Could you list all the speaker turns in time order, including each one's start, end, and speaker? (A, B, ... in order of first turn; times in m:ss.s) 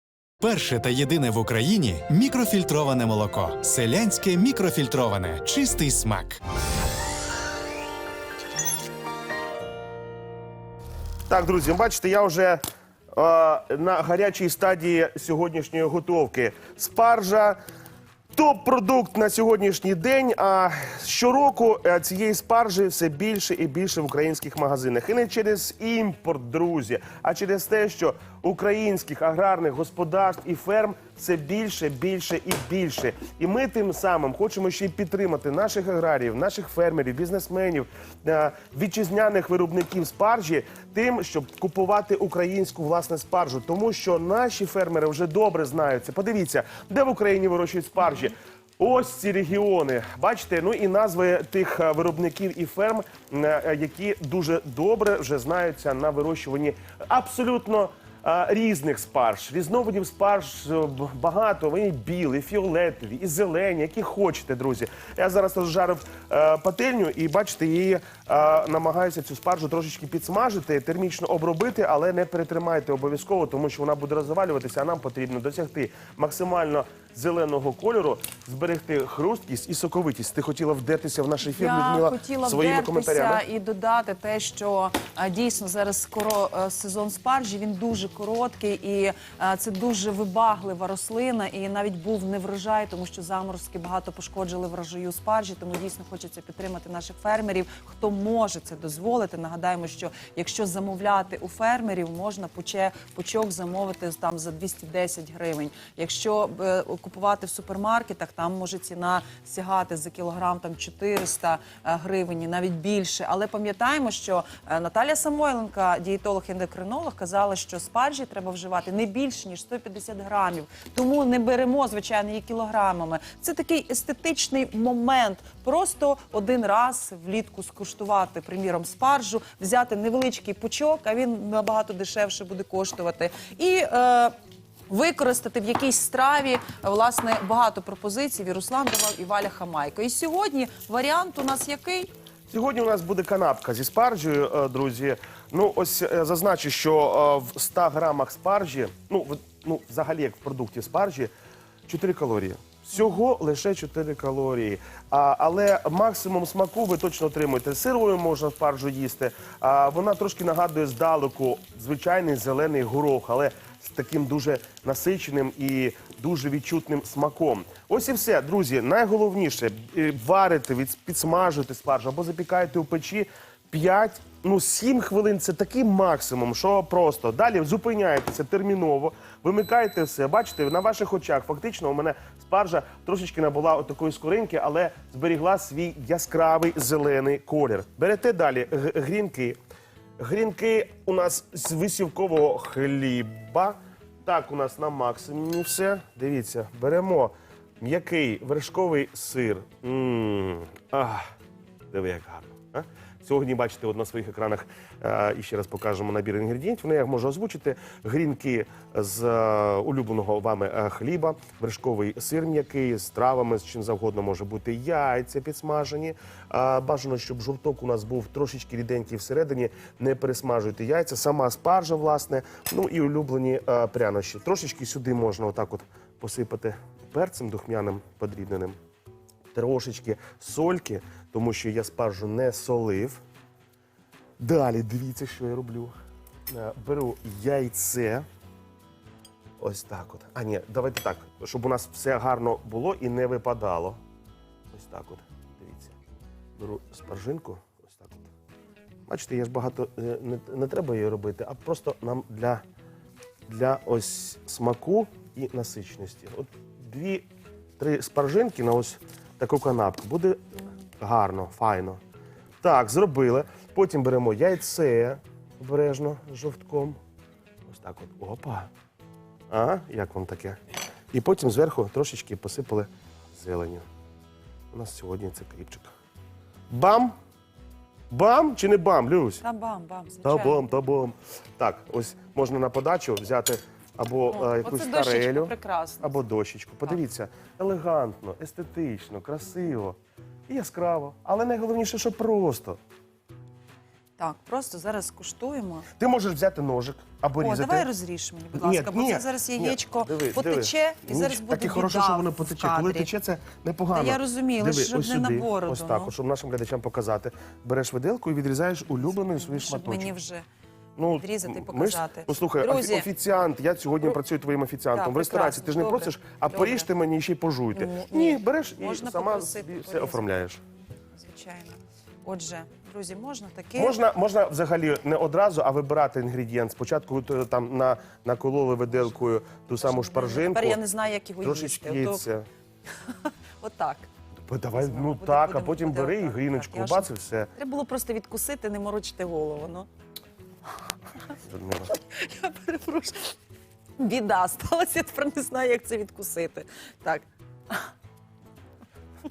0:00.4-0:06.4 A
0:11.3-0:12.6 B
0:13.1-0:17.6 B
0:18.3-1:23.4 B
1:21.4-2:14.3 C
2:14.9-2:22.1 C
2:22.5-2:31.3 B
2:31.9-3:09.6 B
3:10.2-3:21.3 B
3:21.9-3:48.8 B
3:49.5-3:53.2 B
3:54.4-3:55.9 B
3:56.5-3:58.2 B
3:59.6-4:04.0 B
4:04.7-4:06.0 B
4:06.6-4:08.3 B
4:09.1-4:12.6 B
4:13.5-4:17.3 B
4:17.8-4:20.4 B
4:21.0-4:22.0 B
4:22.6-4:27.0 B
4:27.7-4:28.7 B
4:29.5-4:30.6 B
4:31.1-4:33.8 B
4:34.7-4:35.9 B
4:36.7-4:37.1 B
4:38.1-4:39.4 B
4:39.4-4:40.6 C
4:40.2-4:50.0 B
4:44.3-4:46.2 C
4:50.5-4:52.8 B
4:54.2-4:55.9 C
4:56.0-4:57.9 B
4:57.4-5:03.1 C
4:58.5-5:10.1 B
5:03.9-5:06.1 C
5:09.4-5:10.5 C
5:11.0-5:20.6 B
5:11.2-5:13.1 C
5:14.9-5:16.9 C
5:17.7-5:20.5 C
5:21.1-5:24.0 C
5:23.8-5:30.8 B
5:29.8-5:32.2 C
5:31.4-5:32.5 B
5:33.6-5:34.1 C
5:34.4-5:37.5 B
5:34.8-5:39.9 C
5:41.4-5:41.9 B
5:41.9-5:43.3 C
5:44.0-5:47.9 C